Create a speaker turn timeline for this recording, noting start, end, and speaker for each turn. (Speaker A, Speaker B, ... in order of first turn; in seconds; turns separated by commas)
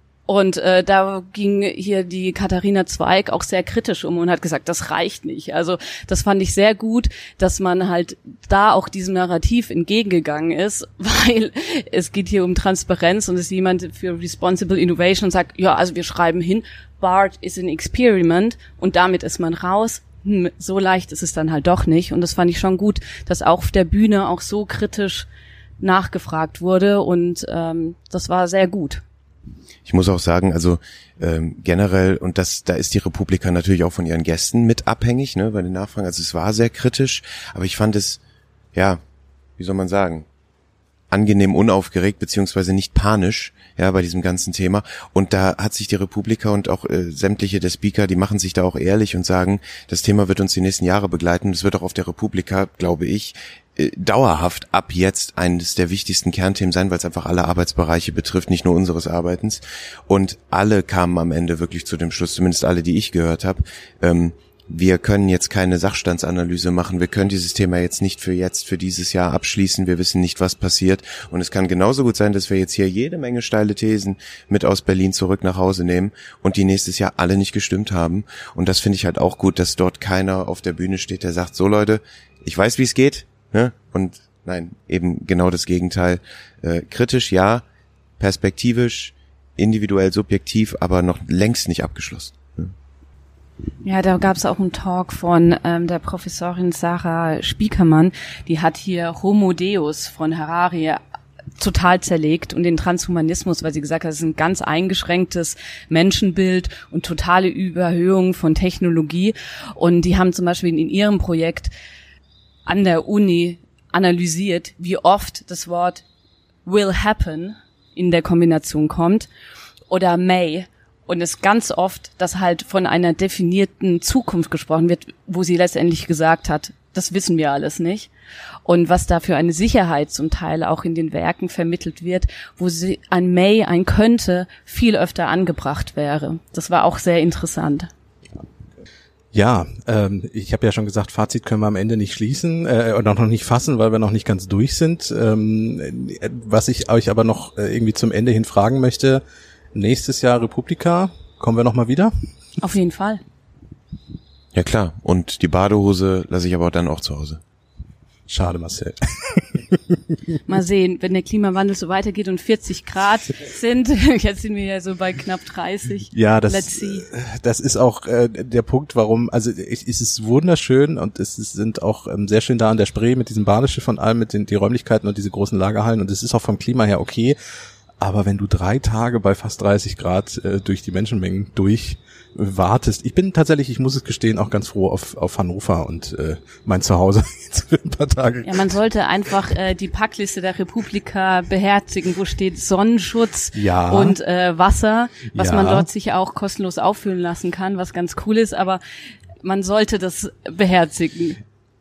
Speaker A: 0.3-25.3, Speaker A: 25.8-29.0, Speaker B: 29.9-38.2, Speaker B: 38.8-39.0, Speaker B: 39.6-40.3, Speaker B: 41.1-87.6, Speaker B: 88.2-92.7, Speaker A: 93.8-101.0, Speaker A: 101.6-111.7, Speaker A: 112.7-116.0, Speaker A: 116.7-119.3, Speaker A: 119.9-128.1, Speaker A: 128.7-137.9, Speaker C: 139.3-149.2, Speaker C: 149.7-152.1, Speaker A: 152.6-153.2, Speaker B: 154.6-157.4, Speaker C: 158.3-160.0, Speaker A: 160.5-167.1, Speaker C: 166.1-177.4, Speaker C: 178.0-188.7, Speaker A: 188.4-198.8, Speaker C: 193.6-194.2, Speaker C: 195.3-195.9, Speaker A: 199.4-201.4